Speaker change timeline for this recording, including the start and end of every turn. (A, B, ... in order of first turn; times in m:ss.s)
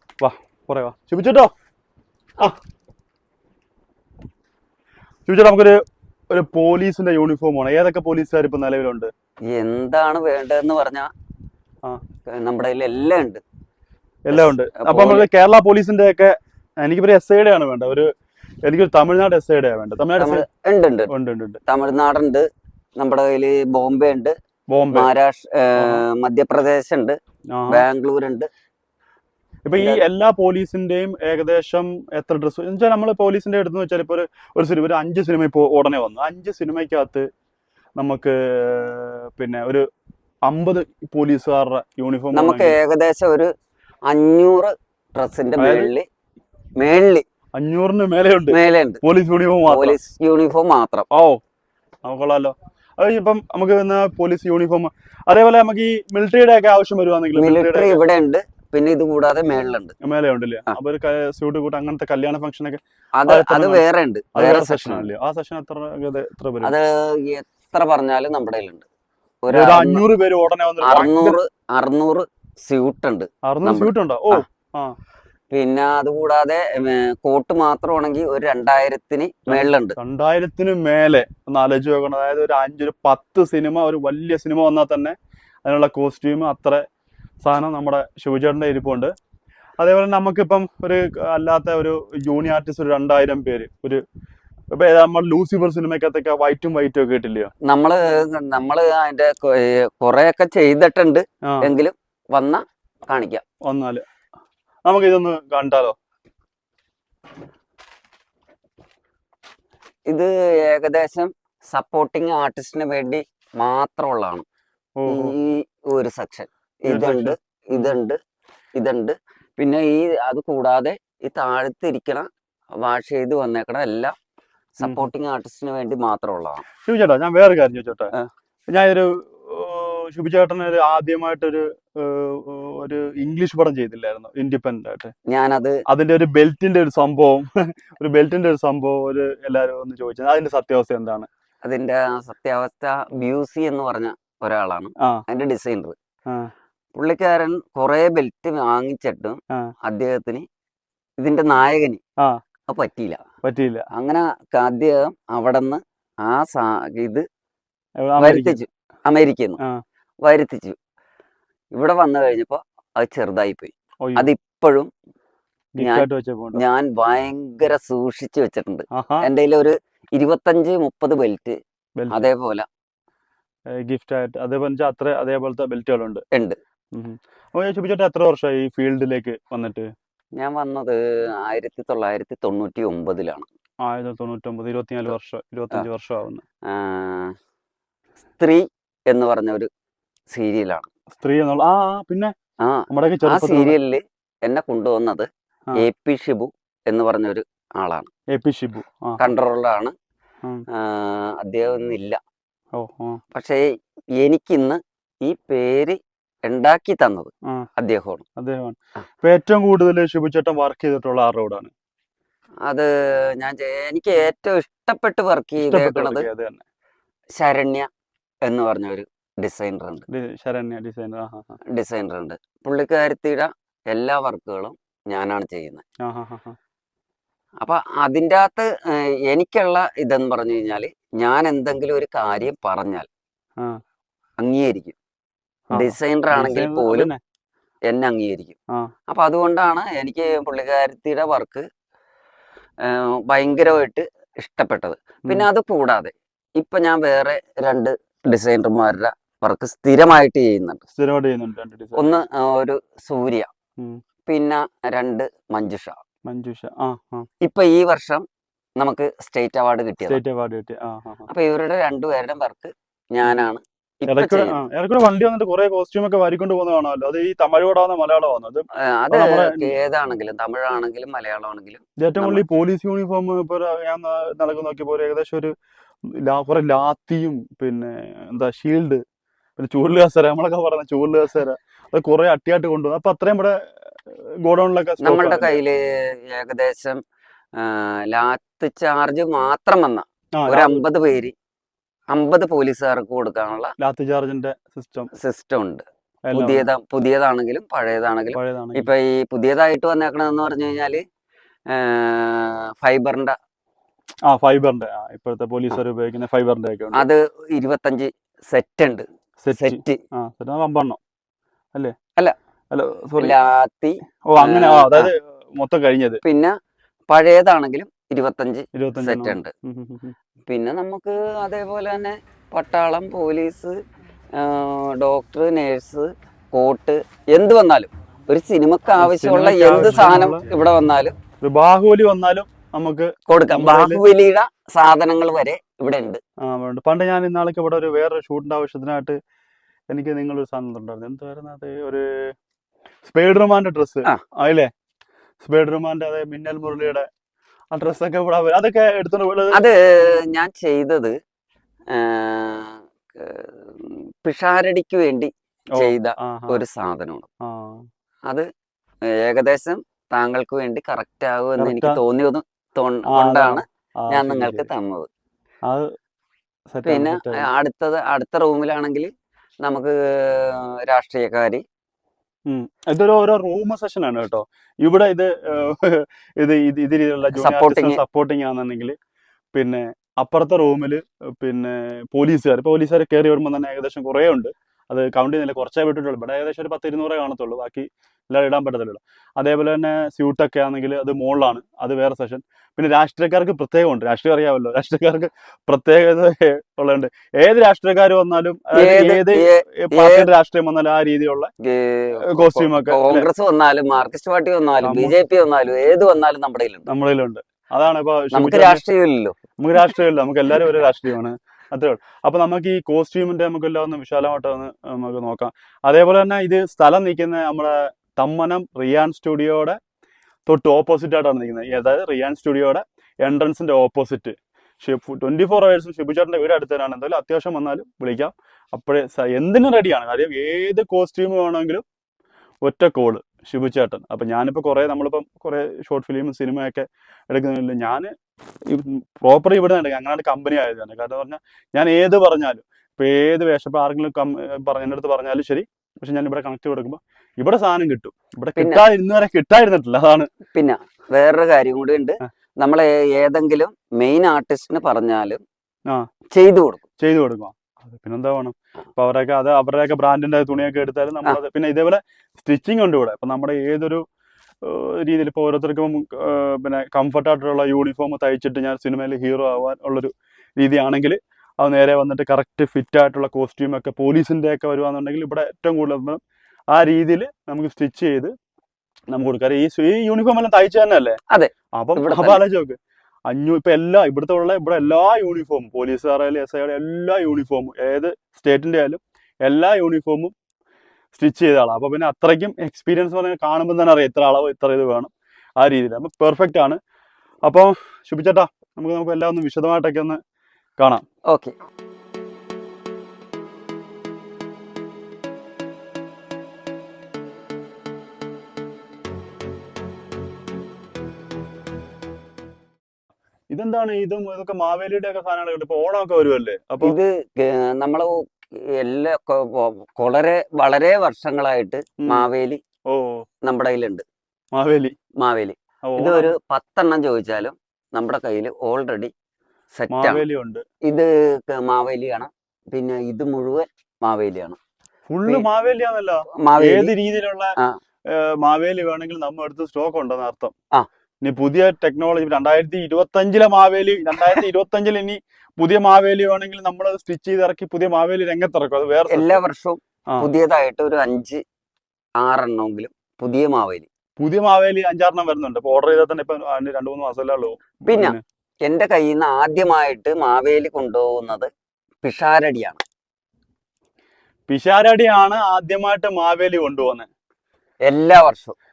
0:00.2-0:01.5 A
0:05.3-0:05.8 A
0:06.3-0:09.1 A
0:09.5-0:11.1 B
0:12.3-0:13.4 B
0:14.3-0:18.1 A
0:14.3-0:15.3 B
0:18.7-0:20.4 A
0:20.2-0:21.1 B
0:21.1-0:21.6 A
0:21.7-0:22.4 B
0:23.0-0:24.3 B
0:24.7-0:25.1 A
0:24.9-0:27.2 B
0:25.8-0:26.0 A
0:27.5-0:27.8 A
0:27.7-0:28.5 B
0:29.6-0:37.3 A
0:29.7-0:30.0 B
0:38.0-0:39.8 A
0:40.5-0:42.8 A
0:42.3-0:43.5 B
0:44.1-0:46.0 B
0:45.6-0:45.9 A
0:46.8-0:47.2 B
0:47.6-0:50.0 A
0:48.5-0:49.0 B
0:49.7-0:51.1 B
0:51.1-0:51.4 A
0:52.0-0:58.0 A
0:57.4-1:00.0 B
1:00.0-1:03.8 A
1:03.2-1:05.1 B
1:04.3-1:06.7 A
1:06.6-1:08.8 B
1:09.4-1:10.1 B
1:09.5-1:11.4 A
1:10.8-1:14.4 B
1:13.4-1:15.0 A
1:15.5-1:20.0 B
1:19.5-1:26.8 A
1:27.4-1:29.1 A
1:29.8-1:34.0 A
1:34.7-1:37.5 A
1:37.6-1:43.4 B
1:43.6-1:44.0 A
1:44.8-1:46.0 A
1:50.1-1:54.4 B
1:55.0-1:55.3 A
1:55.1-1:58.2 B
1:56.9-1:58.0 A
1:58.8-2:02.3 B
2:02.8-2:04.1 B
2:04.8-2:06.6 B
2:06.8-2:08.1 A
2:08.7-2:15.1 A
2:15.3-2:15.8 B
2:15.9-2:21.3 A
2:21.6-2:25.9 B
2:27.0-2:30.4 B
2:31.2-2:32.0 B
2:32.7-2:33.2 B
2:33.4-2:33.9 A
2:33.9-2:37.2 B
2:38.0-2:38.6 A
2:38.2-2:39.6 B
2:40.2-2:40.8 B
2:41.7-2:44.9 B
2:45.8-2:46.6 A
2:45.8-2:51.6 B
2:48.9-2:49.3 A
2:52.1-2:52.7 B
2:53.8-2:56.2 A
2:56.3-2:56.6 B
2:56.9-2:59.9 A
3:00.4-3:03.5 B
3:03.8-3:06.4 A
3:06.7-3:07.3 B
3:08.4-3:09.7 B
3:10.3-3:10.9 B
3:11.1-3:12.3 A
3:12.6-3:18.1 B
3:12.9-3:13.8 A
3:18.3-3:19.2 A
3:19.2-3:19.9 B
3:20.7-3:22.2 B
3:22.8-3:23.2 A
3:23.3-3:23.6 B
3:24.2-3:28.2 B
3:28.4-3:31.7 A
3:32.7-3:36.3 B
3:35.6-3:36.6 A
3:37.4-3:37.9 B
3:38.4-3:40.0 B
3:40.1-3:41.5 A
3:41.7-3:45.8 B
3:46.0-3:46.6 A
3:47.6-3:53.1 B
3:54.4-3:55.0 B
3:55.7-3:57.2 A
3:55.8-3:57.1 B
3:57.9-3:58.5 B
3:59.1-4:01.6 B
4:02.8-4:10.8 B
4:10.9-4:12.1 A
4:12.0-4:13.5 B
4:14.3-4:16.0 B
4:16.3-4:17.3 A
4:17.4-4:18.2 B
4:18.8-4:20.2 B
4:20.0-4:21.3 A
4:21.3-4:24.6 B
4:24.1-4:29.7 A
4:28.8-4:32.4 B
4:32.0-4:35.5 A
4:36.2-4:39.0 A
4:39.6-4:45.6 A
4:45.0-4:47.0 B
4:47.6-4:51.3 B
4:50.4-4:50.8 A
4:52.1-4:53.7 B
4:53.8-4:55.1 A
4:55.2-5:01.0 B
4:56.2-4:56.7 A
4:58.3-4:58.9 A
5:01.7-5:03.4 B
5:04.3-5:07.1 A
5:06.9-5:10.0 B
5:09.4-5:11.0 A
5:12.7-5:13.3 A
5:13.2-5:15.1 B
5:14.3-5:16.2 A
5:16.2-5:16.5 B
5:17.1-5:19.5 B
5:18.7-5:20.1 A
5:20.5-5:23.8 B
5:24.4-5:31.1 B
5:29.0-5:30.5 A
5:31.4-5:34.0 A
5:33.3-5:36.2 B
5:36.4-5:39.2 A
5:39.9-5:42.3 A
5:43.1-5:44.7 A
5:45.4-5:47.1 A
5:47.7-5:49.6 A
5:49.5-5:51.2 B
5:51.9-5:57.3 B
5:55.8-5:56.6 A
5:57.4-5:57.9 A
5:59.1-6:05.1 B
6:01.6-6:02.0 A
6:03.1-6:04.7 A
6:06.7-6:07.5 A
6:06.9-6:09.1 B
6:09.6-6:11.6 B
6:12.5-6:19.0 A
6:17.3-6:18.0 B
6:19.5-6:41.5 A
6:38.8-6:40.3 B
6:41.6-6:46.9 B
6:42.2-6:43.3 A
6:44.8-6:45.1 A
6:46.9-6:48.8 A
6:48.3-6:49.4 B
6:49.6-6:59.8 A
7:00.5-7:11.8 A
7:12.6-7:18.1 A
7:18.7-7:30.3 A
7:28.6-7:28.9 B
7:30.5-7:35.4 B
7:36.3-7:36.8 B
7:37.0-7:44.0 A
7:44.6-7:56.2 A
7:56.7-7:58.3 A
7:59.1-8:01.2 A
8:01.3-8:02.4 B
8:01.8-8:02.8 A
8:03.3-8:10.3 A
8:11.1-8:16.8 A
8:17.4-8:20.2 A
8:20.8-8:21.0 A
8:21.3-8:21.5 B
8:33.5-8:37.0 A
8:36.8-8:42.6 B
8:42.0-8:42.3 A
8:42.9-8:43.2 A
8:43.4-8:44.0 B
8:44.5-8:44.9 A
8:45.2-8:49.1 B
8:45.9-8:46.3 A
8:49.7-8:50.2 B
8:49.9-8:50.6 A
8:50.9-8:54.6 B
8:55.1-8:57.6 A
8:56.4-8:56.9 B
8:58.1-9:00.5 A
9:01.2-9:09.4 A
9:09.1-9:11.4 B
9:12.2-9:13.9 B
9:14.2-9:18.2 A
9:17.9-9:21.5 B
9:22.0-9:22.8 B
9:24.5-9:27.1 A
9:27.9-9:28.5 B